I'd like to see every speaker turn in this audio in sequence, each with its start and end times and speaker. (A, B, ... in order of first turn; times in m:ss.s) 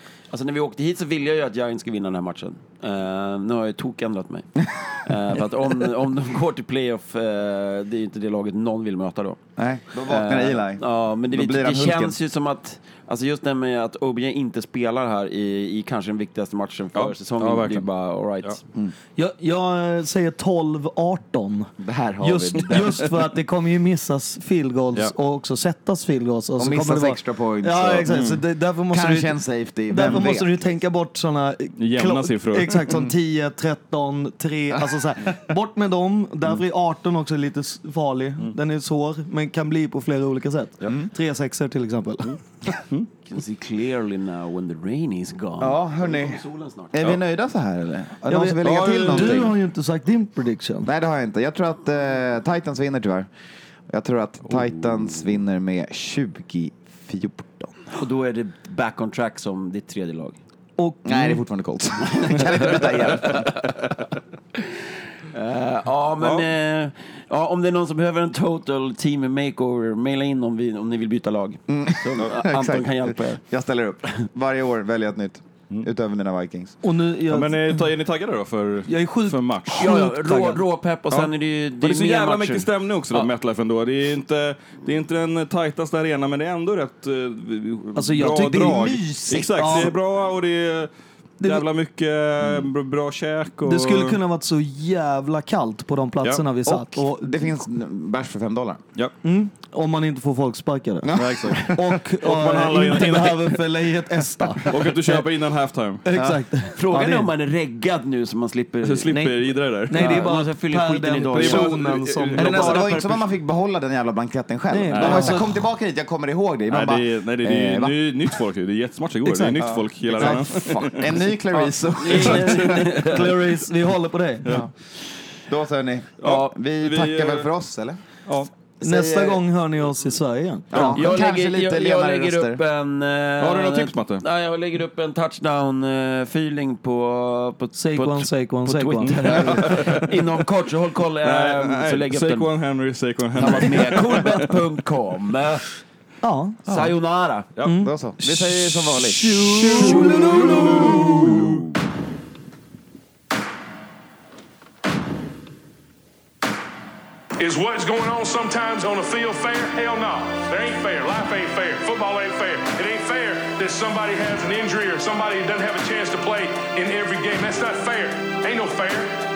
0:00.3-0:09.4 A
0:09.6-0:12.2 B
0:10.0-0:18.6 A
0:16.9-0:17.8 C
0:19.2-0:42.4 D
0:21.8-0:23.0 B
0:26.6-0:28.1 B
0:28.1-0:28.4 C
0:28.9-0:30.5 B
0:31.8-0:32.8 C
0:40.8-0:41.1 B
0:43.2-0:46.9 A
0:45.6-0:49.5 B
0:48.3-0:50.9 D
0:48.6-0:49.5 C
0:50.9-0:53.3 B
0:53.9-0:57.9 B
0:58.0-1:00.4 A
1:00.8-1:01.4 D
1:01.0-1:03.6 B
1:02.0-1:03.7 A
1:04.6-1:13.4 A
1:06.2-1:06.5 C
1:11.7-1:16.8 B
1:16.8-1:17.8 D
1:17.3-1:19.9 C
1:18.9-1:20.6 D
1:19.7-1:23.3 A
1:21.1-1:30.9 C
1:27.9-1:29.9 D
1:28.2-1:29.9 B
1:31.4-1:31.6 D
1:31.4-1:34.2 C
1:33.6-1:37.6 D
1:36.6-1:38.8 B
1:39.2-1:45.2 D
1:41.0-1:42.0 B
1:41.1-1:43.6 C
1:44.7-1:46.0 C
1:46.0-1:47.3 D
1:46.1-1:46.4 B
1:46.8-1:49.2 A
1:48.8-1:50.3 C
1:49.1-1:53.2 D
1:49.9-1:51.8 A
1:51.3-1:53.0 C
1:52.3-1:58.4 B
1:54.7-1:55.5 D
1:54.9-1:55.4 C
1:56.7-2:01.2 C
1:59.2-2:02.8 B
2:02.0-2:03.5 A
2:02.3-2:04.6 D
2:04.4-2:04.7 B
2:05.4-2:08.0 B
2:06.2-2:07.5 C
2:08.8-2:09.4 B
2:08.8-2:11.1 D
2:10.7-2:12.6 B
2:10.8-2:22.5 A
2:13.4-2:14.2 C
2:17.8-2:19.7 D
2:19.0-2:20.1 C
2:21.2-2:24.5 C
2:23.3-2:25.7 A
2:26.2-2:26.7 D
2:26.7-2:27.5 A
2:27.6-2:31.5 D
2:27.8-2:30.1 B
2:29.4-2:31.6 C
2:30.7-2:31.6 B
2:37.4-2:49.1 E